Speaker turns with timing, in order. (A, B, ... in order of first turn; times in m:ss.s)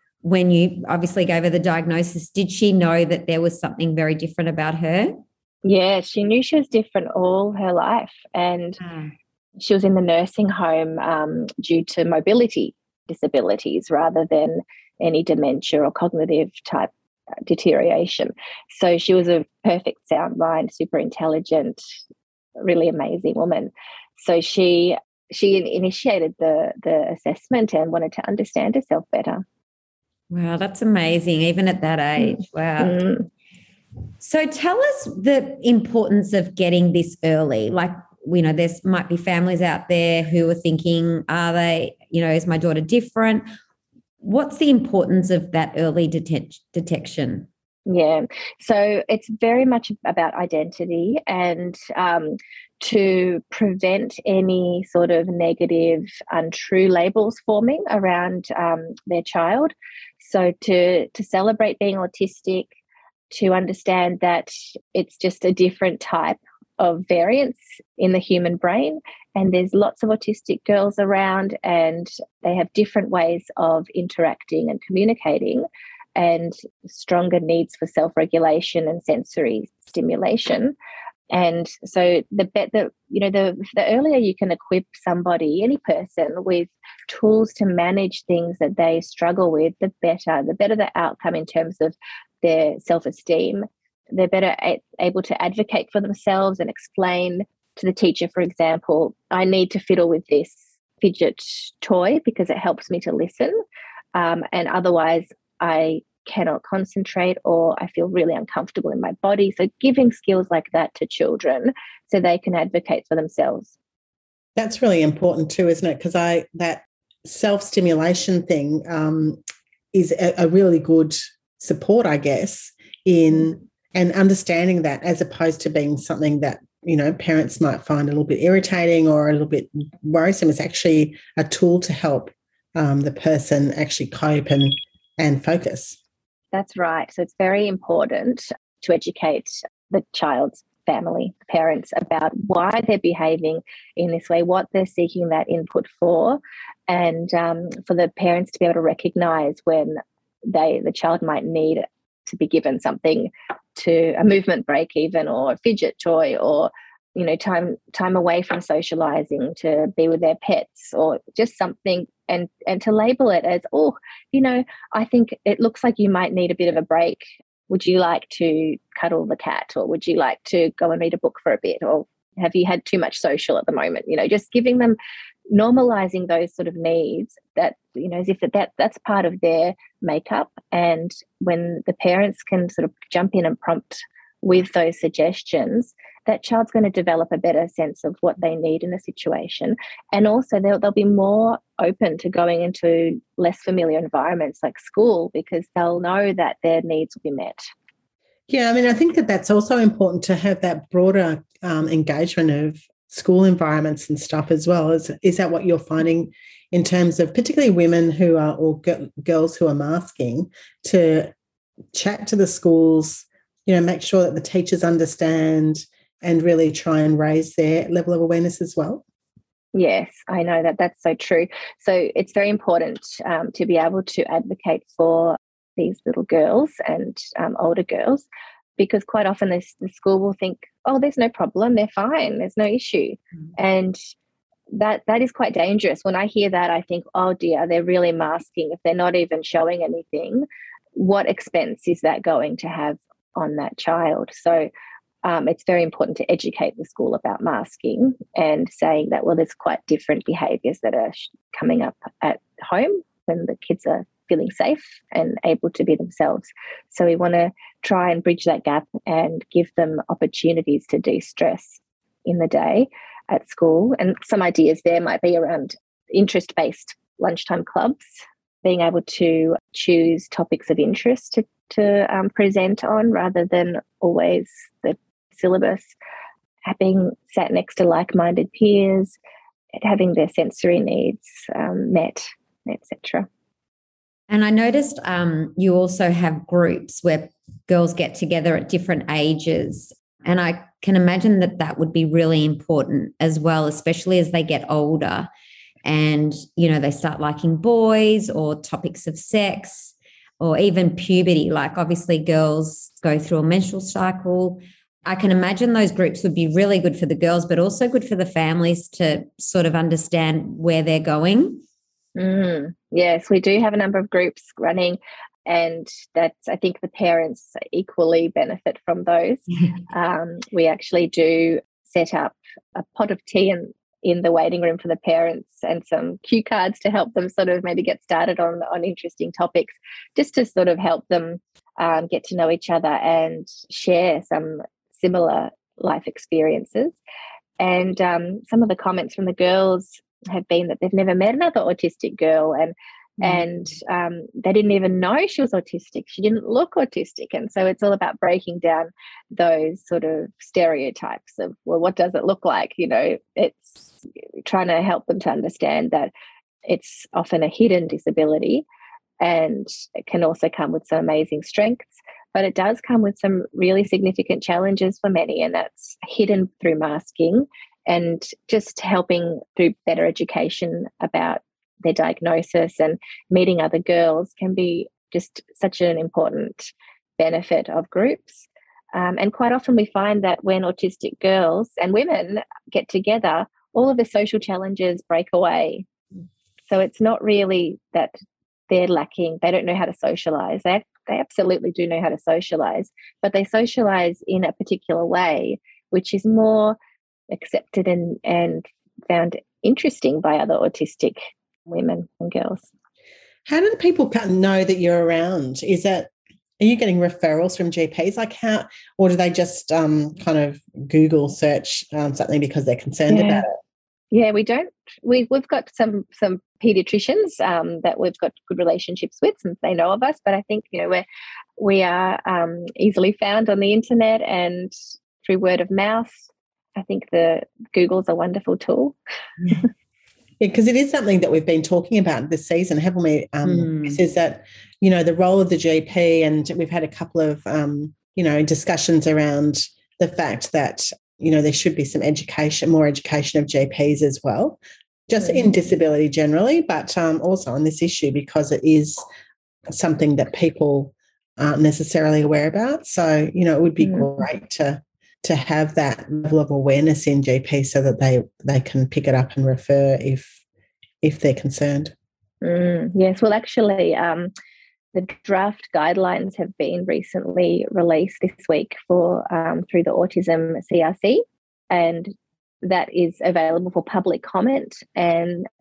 0:00.2-0:05.2 A
0:05.6-0:08.8 B
0:08.8-0:09.1 A
0:09.6-0:16.9 B
0:17.5-0:21.8 B
0:22.6-0:29.4 B
0:30.3-0:33.0 A
0:32.2-0:33.3 B
0:34.2-0:43.5 A
0:44.2-0:47.5 A
0:47.9-1:02.7 B
1:03.3-1:20.8 B
1:21.3-1:43.6 B
1:44.2-1:53.7 B
1:54.6-1:59.4 C
1:59.9-2:16.0 C
2:16.5-2:55.0 B
2:55.5-3:17.6 B
3:18.5-3:31.3 C
3:31.9-3:39.0 C
3:39.8-3:48.2 B
3:48.8-3:54.0 B
3:54.7-4:04.7 B
4:05.2-4:35.9 B
4:36.7-4:39.2 B
4:39.8-4:43.3 B
4:44.3-4:55.3 A
4:55.8-5:11.6 A
5:12.2-5:37.0 B
5:37.6-5:56.1 B
5:56.7-5:58.6 B
5:59.2-6:25.9 B
6:26.7-6:28.1 B
6:28.7-6:36.8 B
6:37.3-6:42.7 B
6:43.5-6:53.5 C
6:53.1-6:53.5 B
6:54.1-7:01.0 B
7:01.6-7:09.0 B
7:10.4-7:29.0 C
7:13.4-7:14.0 A
7:29.7-7:40.4 C
7:33.8-7:34.1 B
7:41.0-7:41.9 C
7:42.4-7:44.3 B
7:44.9-7:55.5 B